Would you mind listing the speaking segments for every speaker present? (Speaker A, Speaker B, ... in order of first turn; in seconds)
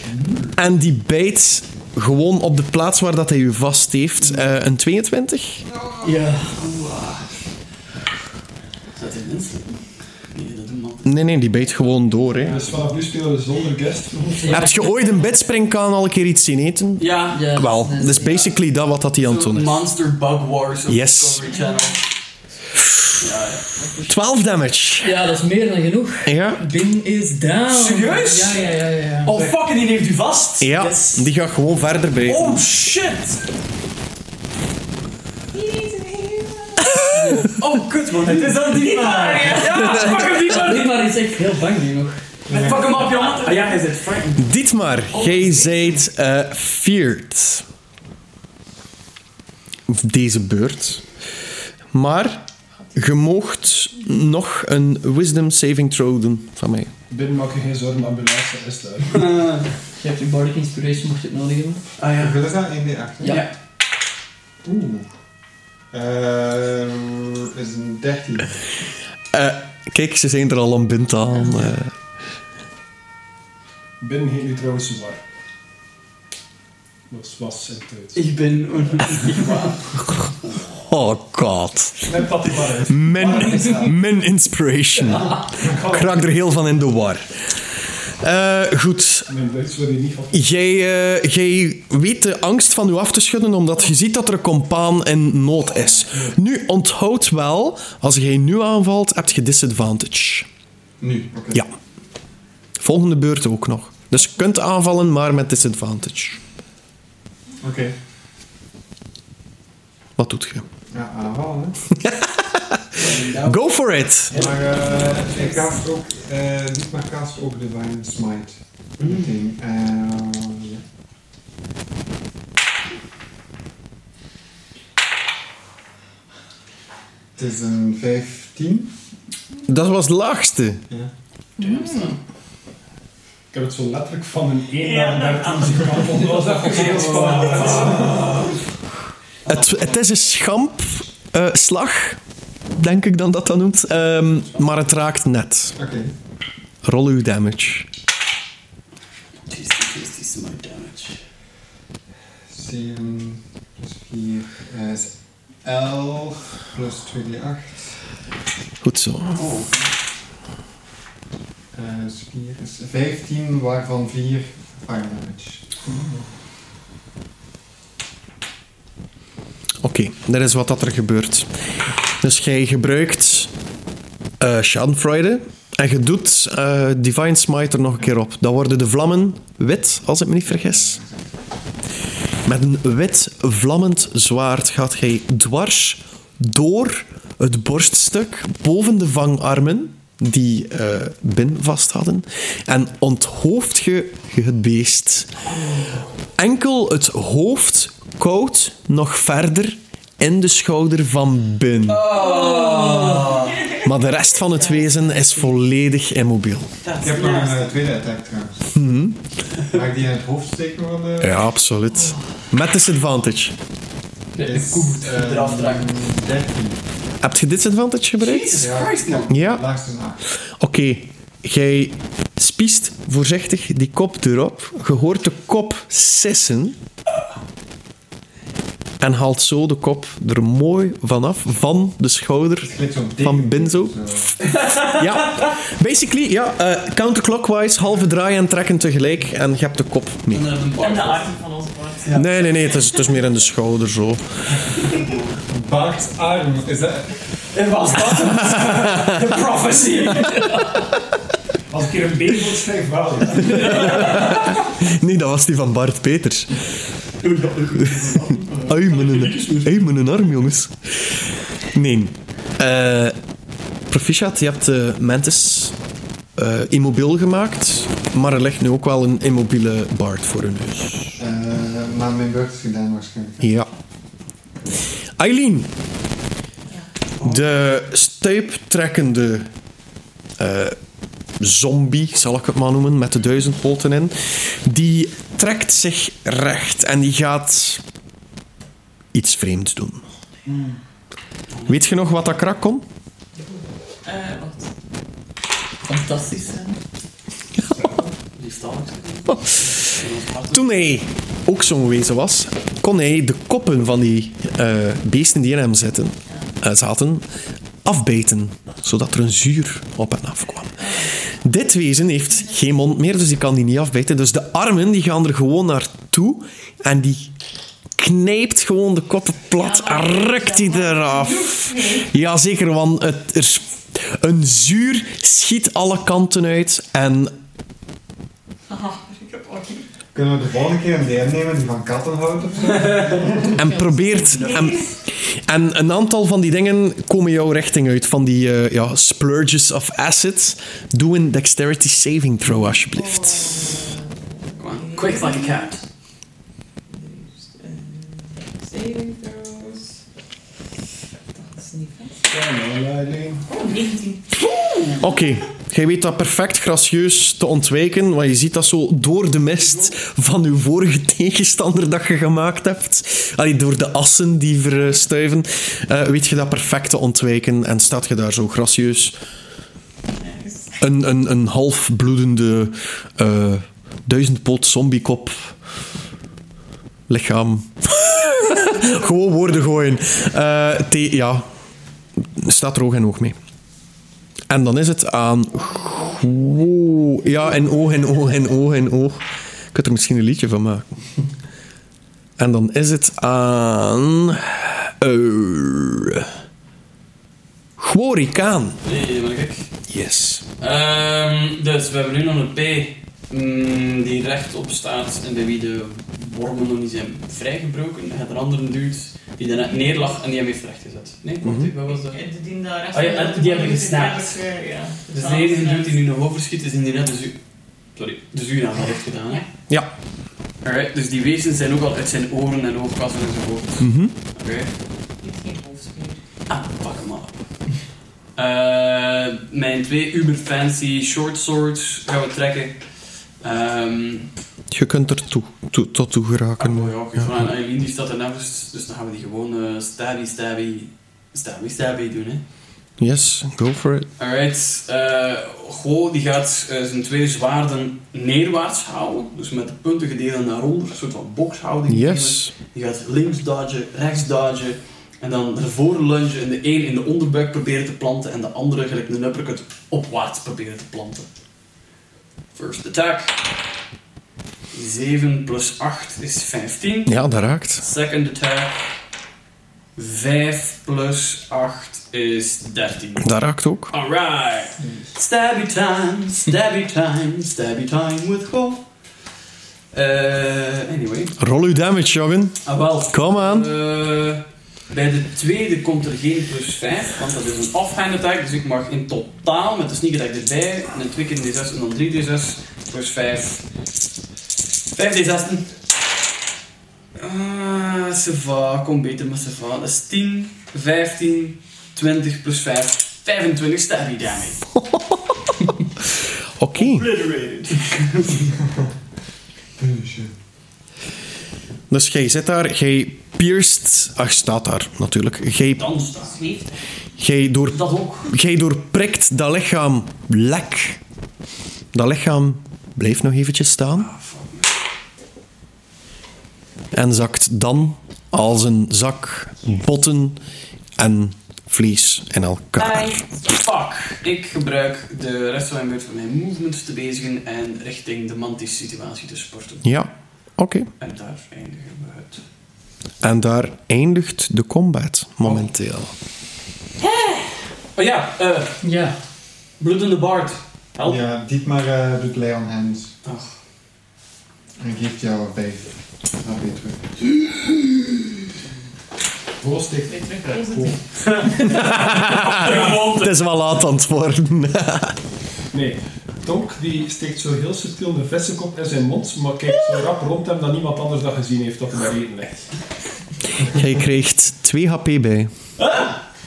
Speaker A: 0.6-5.6, 11.1-12.6, 14.5-19.9, 20.9-21.4, 24.1-25.1, 26.3-26.6, 30.6-32.6, 44.4-47.6, 49.9-51.0, 51.9-56.9, 69.3-71.9, 80.9-82.2, 82.9-87.5, 88.2-89.3, 90.3-100.5, 102.8-106.4, 110.2-110.7, 111.9-114.3, 129.7-130.8, 139.5-142.2, 142.7-145.8, 146.8-147.9, 158.8-159.4, 169.8-171.5, 172.2-173.5, 174.4-181.0, 182.5-195.3, 196.4-202.1, 203.8-206.7, 208.7-209.2, 211.2-213.6, 217.2-218.7, 219.3-219.6, 220.4-226.8, 229.0-234.0, 234.9-240.4, 242.2-244.3, 248.3-249.4, 253.4-256.5, 257.8-263.2, 263.9-265.8, 266.4-271.1, 273.4-273.7, 275.2-275.7, 277.2-279.5, 280.4-280.8, 281.4-287.8, 289.1-290.0, 291.7-292.9, 297.6-297.9, 299.3-299.9, 300.5-307.2, 307.9-317.3, 318.0-327.4, 333.5-343.7, 355.0-369.1, 370.8-375.6, 377.1-381.5, 382.4-383.4, 384.5-389.2, 389.7-390.9, 392.4-396.3, 397.8-398.8, 399.9-400.4, 411.4-411.7, 423.8-424.1, 434.7-437.0, 443.0-444.1, 451.9-452.5, 467.1-467.8, 473.2-473.9, 481.4-483.7, 504.8-505.3, 506.6-507.1, 511.9-516.0, 517.2-521.0, 521.9-524.1, 526.9-530.4, 531.0-533.2, 539.8-540.9, 543.2-546.1, 561.7-565.2, 573.6-575.5
Speaker B: 6.0-6.6, 14.4-14.9, 17.3-18.5, 25.0-29.4, 30.8-31.2, 37.1-37.5, 39.3-42.2, 60.0-61.8, 63.2-63.5, 202.2-203.4, 211.9-212.2, 290.5-290.8, 295.9-296.8, 333.6-334.4, 548.8-549.1
Speaker C: 6.6-7.2, 8.9-9.8, 10.3-11.2, 17.0-17.5, 19.2-22.0, 23.2-23.8, 27.7-28.7, 29.2-30.9, 32.2-33.4, 37.5-41.0, 42.5-44.4, 45.3-45.8, 59.1-59.7, 62.0-62.5, 63.3-63.5, 78.2-79.9, 113.0-115.7, 119.0-119.4, 131.6-132.2, 136.7-138.4, 139.4-140.4, 149.5-151.2, 159.3-159.9, 201.9-203.7, 206.8-207.8, 214.3-216.1, 218.2-219.5, 234.4-235.1, 240.3-241.3, 244.8-245.3, 247.5-250.7, 253.3-254.6, 257.2-260.1, 267.7-268.1, 277.2-277.4, 291.5-291.8, 298.3-300.8, 332.8-333.2, 344.6-345.8, 398.8-399.7, 400.6-412.2, 412.9-414.4, 415.1-417.4, 417.9-419.4, 420.6-424.7, 426.5-427.4, 428.4-432.9, 433.4-434.3, 436.6-442.4, 444.2-461.3, 462.6-463.4, 464.7-467.2, 467.8-468.8, 470.0-473.3, 473.9-478.9, 479.9-481.4, 482.6-493.6, 494.9-495.8, 497.2-504.7, 506.7-508.5, 515.8-516.4, 517.7-518.3, 524.0-524.7, 532.8-540.0, 541.0-542.4, 548.0-548.8, 549.8-551.2, 553.2-553.5, 561.2-563.4, 575.8-576.2
Speaker D: 12.4-14.8, 57.1-59.3, 74.0-75.2, 77.1-78.3, 82.0-83.8, 85.6-86.3, 89.3-90.4, 133.5-138.4, 165.9-166.3, 251.7-253.9, 352.3-353.5, 559.6-561.0, 562.6-563.1, 565.7-572.6
Speaker E: 21.6-21.9, 35.5-37.5, 38.6-40.1, 42.6-43.8, 134.8-137.7, 203.6-203.9, 204.6-204.9, 240.8-242.3, 294.0-294.7, 310.8-311.2, 319.5-322.1, 328.7-329.9, 334.4-334.9, 342.8-345.8, 346.9-350.0, 351.3-352.2, 353.5-354.5, 370.1-370.8, 385.7-386.3, 409.6-410.1, 411.9-416.0, 425.2-426.2, 516.1-517.0, 560.1-561.6
Speaker F: 42.5-43.0, 62.1-63.5, 64.6-65.1, 65.9-68.5, 101.0-101.7, 107.6-108.0, 110.9-111.8, 114.3-120.8, 127.4-128.9, 145.8-146.1, 152.5-155.1, 155.6-157.9, 161.7-165.7, 180.6-181.1, 207.0-208.6, 209.7-211.5, 214.4-216.8, 218.6-220.2, 232.6-234.3, 245.5-247.1, 271.2-273.4, 330.1-333.6, 509.8-510.3, 551.0-553.1, 554.8-557.0